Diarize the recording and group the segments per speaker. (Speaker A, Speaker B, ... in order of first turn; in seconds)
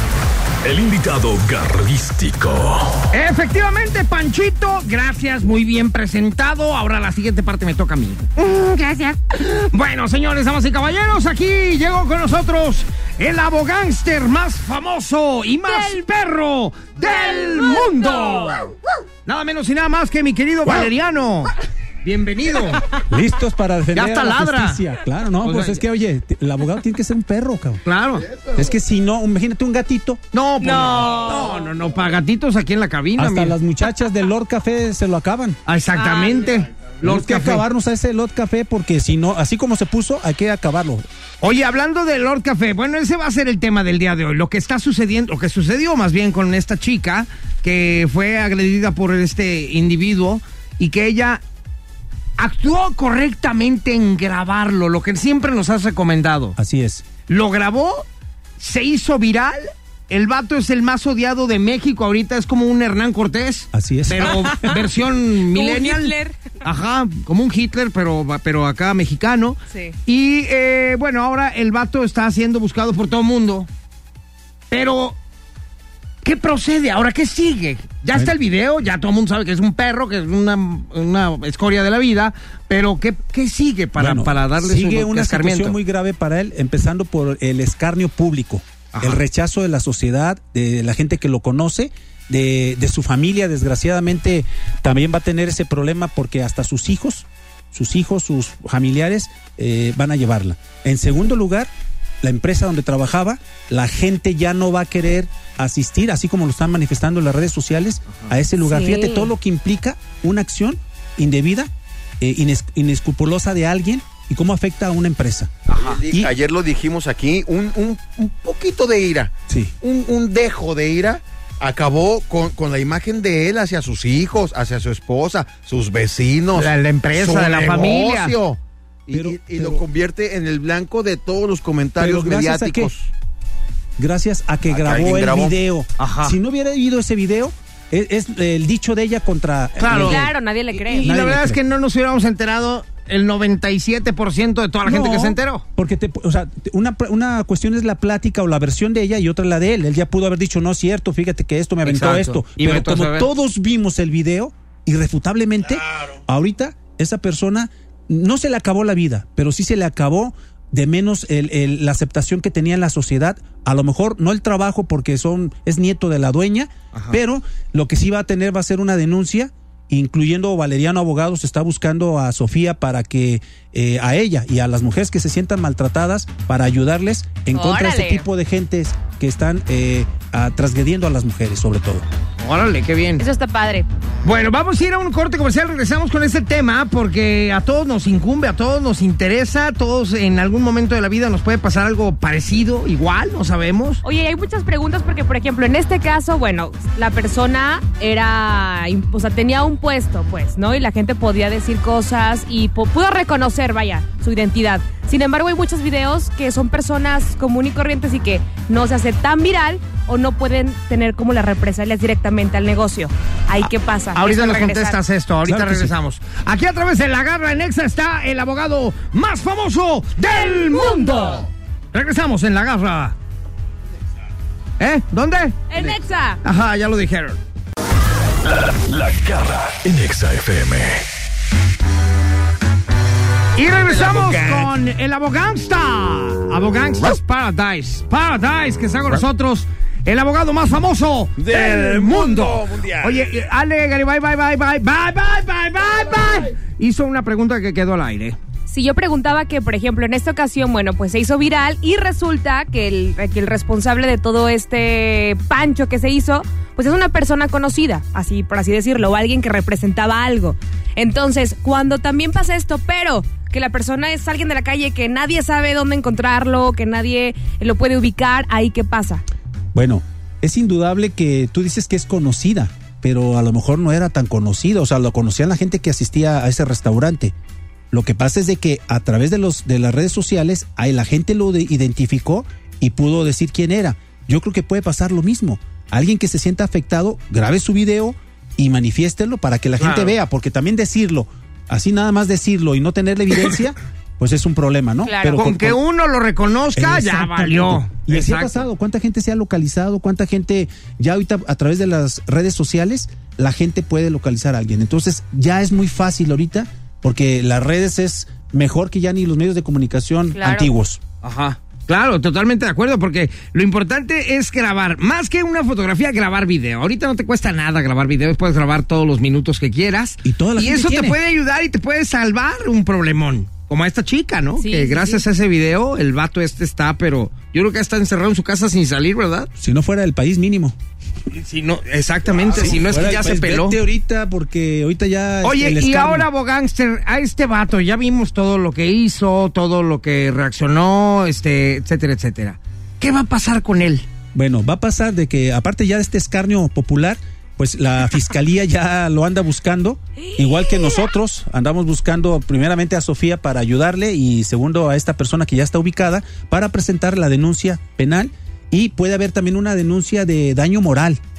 Speaker A: 0.6-3.0, 228.4-231.1
Speaker B: 3.1-18.7, 19.3-21.5, 22.0-22.9, 23.9-24.8, 25.4-25.8, 27.8-28.3, 30.3-33.6, 35.7-37.6, 41.4-51.4, 52.4-56.6, 57.3-58.1, 58.6-73.7, 74.7-75.2, 76.2-85.8, 88.9-89.2, 115.7-116.0, 126.5-128.4, 136.0-136.4, 139.8-145.6, 151.8-153.3, 166.9-167.2, 182.4-183.2, 184.2-194.0, 214.1-223.1, 224.8-227.4, 233.6-248.4, 289.8-290.2, 295.4-298.7, 311.2-329.5, 331.3-333.8, 335.4-344.1
Speaker C: 15.7-16.0, 17.0-18.5, 30.6-31.6, 36.0-36.5, 64.3-64.8, 65.5-66.5, 69.7-70.0, 108.6-109.3, 139.9-141.1, 177.5-178.3, 183.2-183.9, 194.0-215.0, 220.6-221.4, 225.7-226.4, 248.7-269.2, 295.0-295.4, 310.3-310.7, 324.6-325.2, 350.4-351.0
Speaker D: 23.1-27.8, 28.6-30.2, 33.2-35.6, 37.0-41.0, 56.6-57.0, 63.7-64.7, 84.0-101.7, 102.2-115.5, 119.5-119.7, 129.1-129.8, 132.0-132.9, 134.0-140.3, 141.0-141.6, 144.8-182.1, 215.4-215.9, 269.7-277.3, 277.9-295.8, 296.8-311.0, 320.2-321.2, 329.6-330.8, 332.4-336.3, 344.3-361.2
Speaker E: 28.2-28.8, 115.8-133.1, 134.7-135.6, 233.9-234.7, 241.4-243.3